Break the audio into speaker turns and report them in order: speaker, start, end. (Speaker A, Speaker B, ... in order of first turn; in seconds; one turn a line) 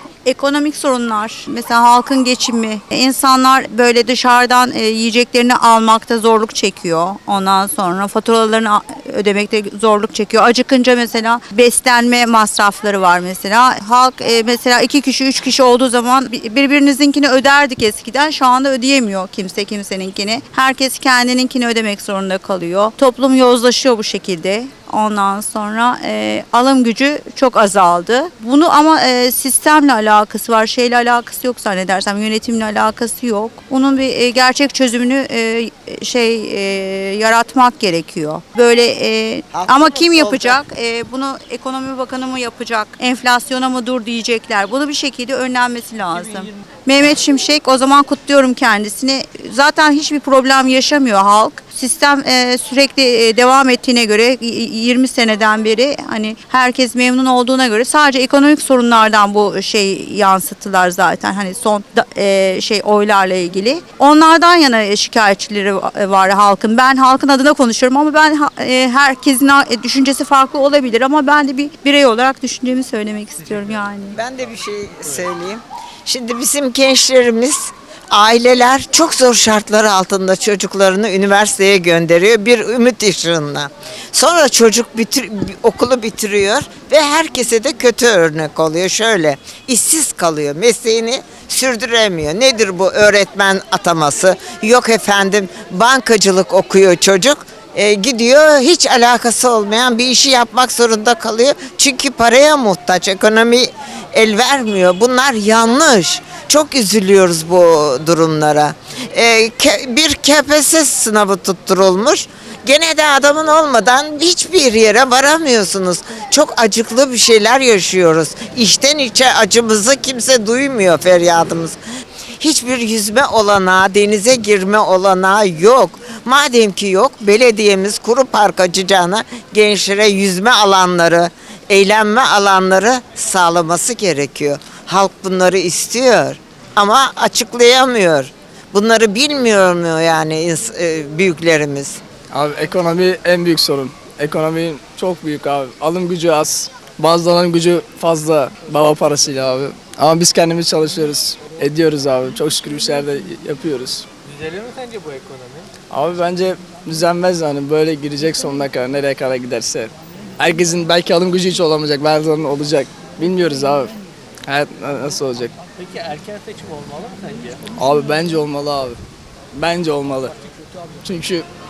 Speaker A: 0.2-74.2
Speaker B: 39.5-40.6
Speaker C: 46.1-46.6
Speaker B: 74.1-121.8
Speaker B: 122.4-142.0
Speaker D: 142.3-154.1
Speaker C: 154.3-155.7
Speaker D: 155.9-163.9
Speaker D: 164.5-165.5
Speaker C: 165.8-167.6
Speaker D: 167.8-169.0
Speaker D: 169.5-170.3
Speaker D: 171.0-171.5